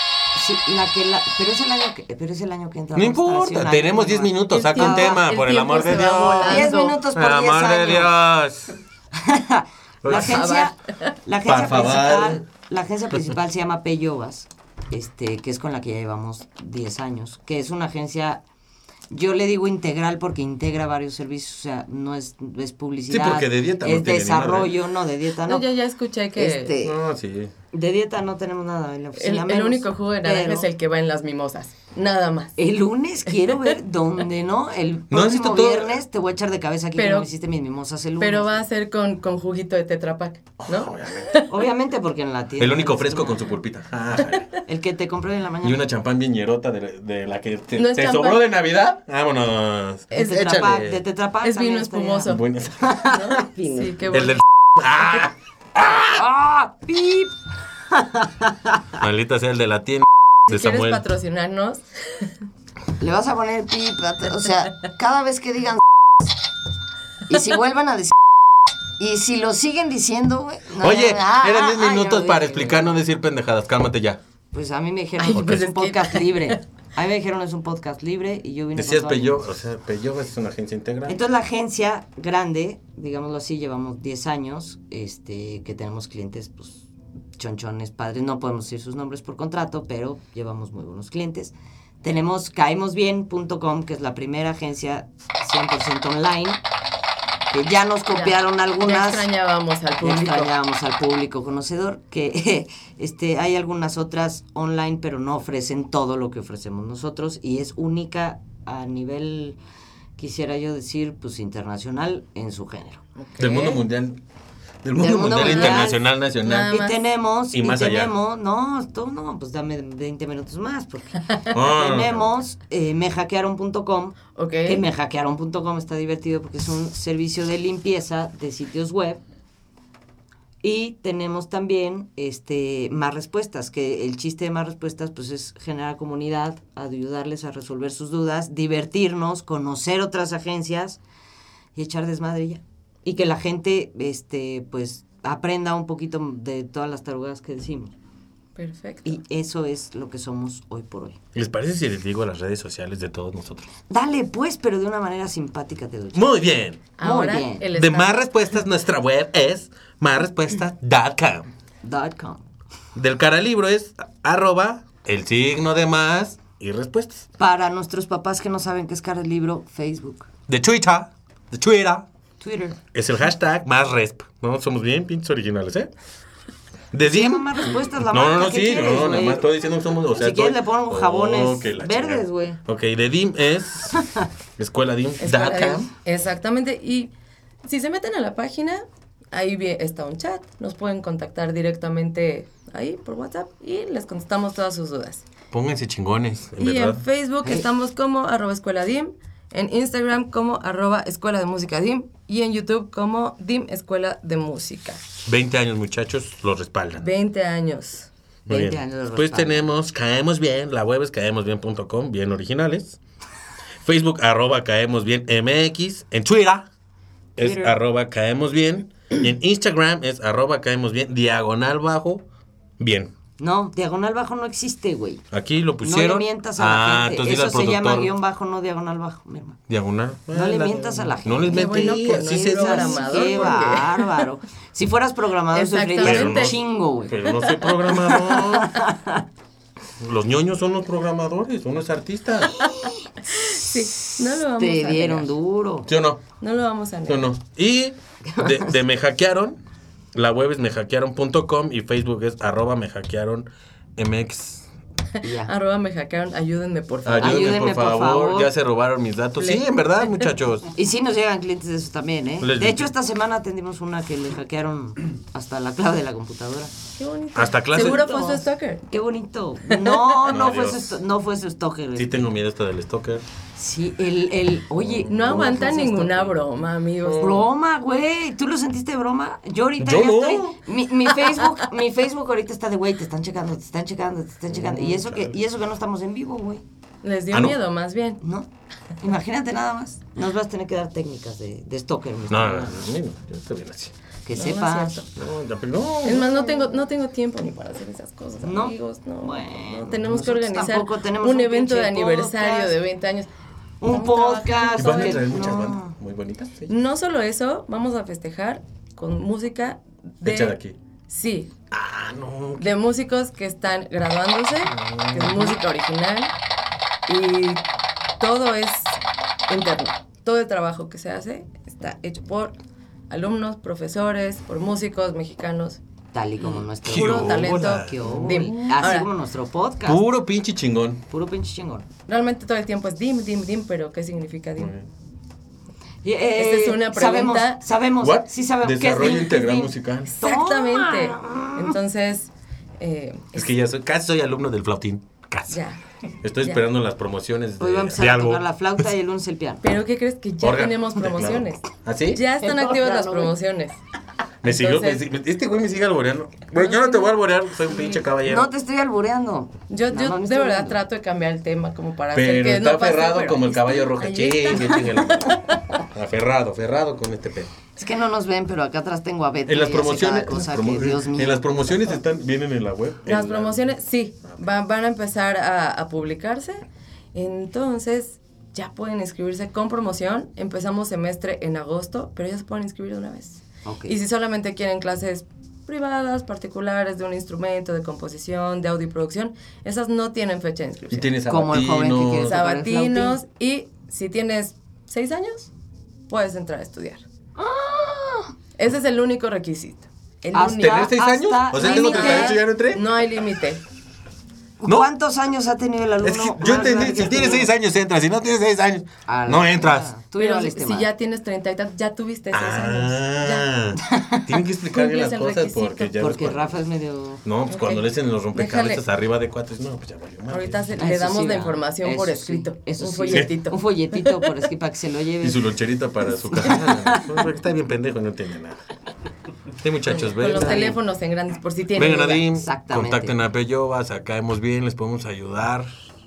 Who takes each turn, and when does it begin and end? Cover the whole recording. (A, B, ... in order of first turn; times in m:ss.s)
0:00.3-0:05.2 A
0:02.9-0:08.8 B
0:04.5-0:07.0 C
0:06.2-0:08.2 A
0:09.1-0:18.4 A
0:10.0-0:10.5 B
0:10.1-0:11.1 C
0:11.4-0:12.4 B
0:19.1-0:25.6 A
0:23.1-0:24.7 B
0:25.5-0:26.7 C
0:26.4-0:27.0 A
0:26.8-0:27.5 B
0:27.7-0:30.7 A
0:29.1-0:32.6 C
0:32.6-0:38.5 A
0:33.3-0:33.8 C
0:35.1-0:36.0 B
0:37.0-0:37.3 C
0:38.2-0:41.6 C
0:40.6-0:41.3 B
0:41.4-0:43.5 A
0:42.6-0:44.6 B
0:44.6-0:45.8 A
0:45.6-0:51.0 B
0:47.8-0:48.4 C
0:50.1-0:50.6 C
0:50.1-0:52.3 A
0:51.4-0:54.4 C
0:52.3-0:53.4 B
0:52.9-0:53.9 A
0:54.1-0:56.2 B
0:56.1-0:57.3 A
0:57.9-0:58.7 A
0:59.0-1:01.0 B
1:00.5-1:02.3 C
1:03.0-1:06.3 A
1:07.3-1:08.2 A
1:09.0-1:12.9 A
1:10.8-1:14.2 B
1:14.5-1:19.4 A
1:15.2-1:16.6 C
1:18.7-1:21.2 B
1:21.0-1:36.6 A
1:37.5-1:39.3 A
1:38.1-1:40.5 C
1:40.0-1:49.6 A
1:50.2-1:53.0 A
1:53.2-1:53.8 C
1:53.4-1:54.2 B
1:54.8-1:56.8 B
1:55.0-1:56.0 A
1:55.3-1:57.0 C
1:56.7-2:09.2 A
1:57.5-1:58.1 B
2:01.5-2:02.3 B
2:04.4-2:04.8 C
2:10.6-2:21.0 A
2:21.7-2:28.0 A
2:28.6-2:29.2 C
2:29.0-2:31.2 A
2:31.3-2:33.7 B
2:33.9-2:36.2 A
2:36.1-2:36.9 B
2:37.0-2:38.3 C
2:37.0-2:37.6 A
2:37.7-2:41.5 B
2:41.8-2:42.4 A
2:42.9-2:47.3 B
2:47.4-2:50.3 A
2:50.5-2:52.0 B
2:52.4-2:52.8 A
2:52.9-2:55.9 B
2:56.9-3:04.0 B
2:57.0-2:59.5 A
3:00.1-3:02.6 A
3:04.6-3:05.9 B
3:05.2-3:07.1 C
3:07.6-3:15.3 C
3:15.5-3:17.0 B
3:16.6-3:25.0 C
3:25.2-3:27.1 B
3:27.0-3:28.1 C
3:28.4-3:29.7 A
3:28.5-3:33.0 B
3:33.8-3:36.7 B
3:37.4-3:42.2 B
3:37.4-3:37.8 A
3:42.8-3:43.1 B
3:43.4-3:45.3 A
3:45.3-3:48.1 B
3:45.8-3:49.6 A
3:49.7-3:53.6 B
3:50.3-3:57.4 A
3:51.4-3:54.3 C
3:55.5-3:56.6 C
3:56.0-3:58.8 B
3:58.0-3:59.2 A
4:00.0-4:02.6 B
4:02.8-4:05.3 C
4:04.5-4:05.9 A
4:05.9-4:06.2 B
4:06.4-4:07.3 C
4:07.1-4:09.6 B
4:08.2-4:08.7 A
4:10.1-4:14.7 B
4:15.2-4:15.5 A
4:15.4-4:17.5 C
4:17.0-4:20.7 B
4:17.2-4:18.5 A
4:20.8-4:26.7 A
4:22.4-4:22.9 B
4:27.0-4:28.9 C
4:27.3-4:28.1 B
4:27.7-4:32.3 A
4:29.7-4:30.1 C
4:30.3-4:30.9 B
4:31.9-4:33.2 B
4:33.6-4:36.4 A
4:34.8-4:35.7 B
4:35.1-4:37.4 C
4:37.0-4:37.4 B
4:37.2-4:46.6 A
4:39.8-4:40.6 B
4:44.5-4:45.4 B
4:47.0-4:48.2 C
4:47.3-4:47.6 B
4:48.2-4:48.5 A
4:49.0-4:52.8 A
4:52.3-4:53.9 B
4:54.2-4:55.0 A
4:54.3-4:55.1 C
4:55.2-4:56.3 B
4:56.0-5:03.3 C
4:58.4-5:02.7 A
5:03.8-5:05.9 A
5:03.9-5:05.2 C
5:04.8-5:06.7 B
5:06.7-5:10.6 C
5:10.2-5:10.8 B
5:11.1-5:11.5 C
5:11.7-5:12.7 B
5:12.6-5:16.3 C
5:14.7-5:15.6 B
5:17.1-5:17.6 C
5:18.2-5:22.6 C
5:23.1-5:25.8 C
5:26.1-5:30.0 A
5:26.5-5:29.1 C
5:26.8-5:28.9 B
5:29.8-5:31.0 B
5:31.1-5:31.9 A
5:32.1-5:34.7 C
5:34.6-5:34.9 B
5:36.0-5:41.7 A
5:36.3-5:37.6 C
5:38.0-5:40.2 B
5:40.0-5:43.5 C
5:43.3-5:45.6 B
5:45.5-5:45.8 C
5:46.2-5:48.9 B
5:47.6-5:49.6 A
5:49.6-5:53.8 C
5:50.4-5:52.2 B
5:52.4-5:53.3 A
5:54.4-5:58.5 B
5:54.4-5:55.0 C
5:56.5-5:57.2 C
5:57.7-5:58.0 C
5:58.2-6:00.8 A
5:59.7-6:05.8 C
6:02.1-6:07.5 B
6:07.8-6:11.4 A
6:09.5-6:13.7 B
6:13.0-6:31.1 C
6:23.6-6:23.9 A
6:30.9-6:32.4 B
6:31.3-6:33.2 A
6:32.2-6:35.5 C
6:36.1-6:37.0 C
6:37.4-6:38.3 A
6:38.6-6:40.9 C
6:40.3-6:42.4 A
6:40.6-6:42.8 B
6:41.5-6:43.6 C
6:44.6-6:47.5 A
6:46.0-6:49.9 B
6:49.1-6:50.9 A
6:50.2-6:53.5 C
6:52.3-6:56.6 B
6:53.8-6:54.3 A
6:54.7-6:56.0 C
6:56.0-6:57.2 A
6:57.2-7:00.6 B
6:57.5-6:58.8 C
7:00.3-7:04.2 C
7:00.8-7:05.5 A
7:05.2-7:08.6 B
7:06.1-7:07.3 A
7:09.6-7:10.8 B
7:10.0-7:10.8 A
7:10.0-7:12.3 C
7:11.7-7:15.8 B
7:12.4-7:13.1 A